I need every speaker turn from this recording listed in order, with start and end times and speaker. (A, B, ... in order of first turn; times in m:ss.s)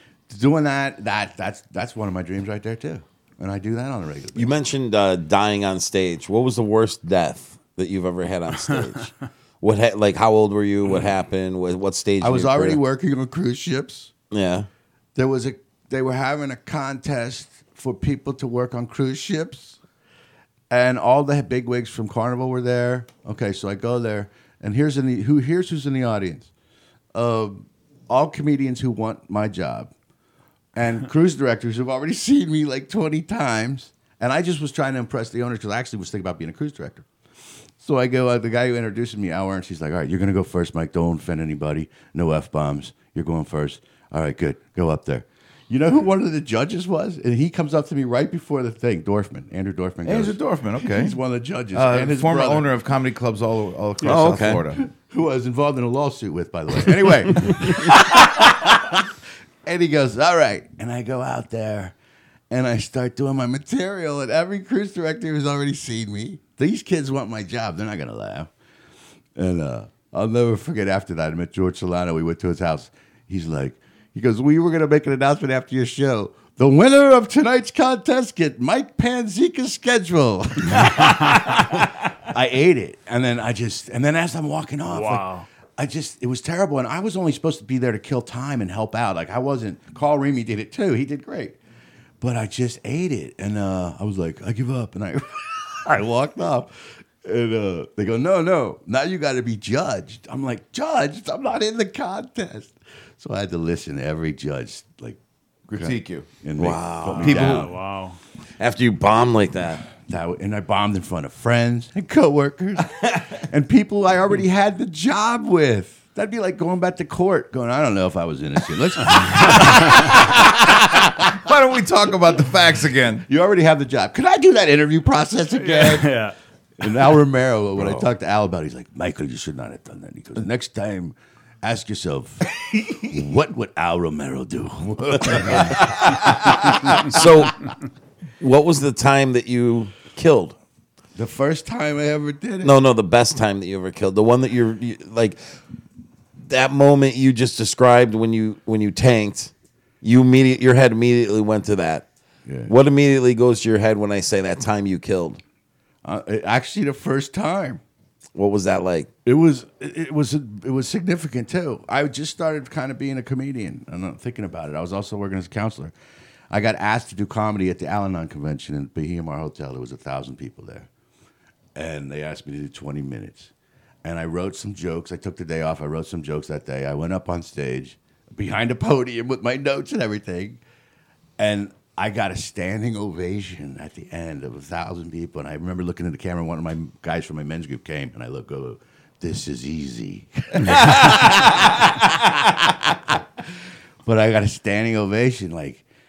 0:00.3-0:04.5 A
0:04.3-0:12.8 B
0:12.2-0:14.1 A
0:14.3-0:14.7 B
0:15.1-0:19.8 A
0:20.7-0:26.5 A
0:27.1-0:29.9 A
0:30.7-0:37.0 A
0:37.8-0:52.7 A
0:50.0-0:51.2 C
0:51.7-0:54.8 C
0:54.0-0:54.6 B
0:54.7-0:59.1 A
0:57.4-0:57.8 B
0:59.6-1:01.9 A
1:02.5-1:08.5 A
1:09.3-1:31.6 A
1:20.8-1:21.4 D
1:24.9-1:25.4 D
1:32.2-1:47.7 A
1:45.7-1:46.3 C
1:46.6-1:47.6 B
1:47.2-1:48.2 D
1:47.2-1:47.6 C
1:48.6-1:49.8 B
1:50.0-2:01.3 A
1:59.7-2:03.2 C
2:03.2-2:06.2 A
2:05.6-2:06.3 D
2:06.8-2:17.0 A
2:15.1-2:16.1 C
2:17.0-2:17.6 B
2:18.4-2:20.6 B
2:21.1-2:22.8 A
2:22.6-2:25.4 B
2:26.4-2:32.1 B
2:32.4-2:32.7 A
2:32.6-2:35.4 B
2:36.0-2:37.8 A
2:38.3-2:39.1 B
2:39.2-2:45.9 A
2:46.5-2:50.9 A
2:51.7-2:53.5 A
2:54.0-3:00.6 A
3:01.4-3:13.5 A
3:14.0-3:15.8 A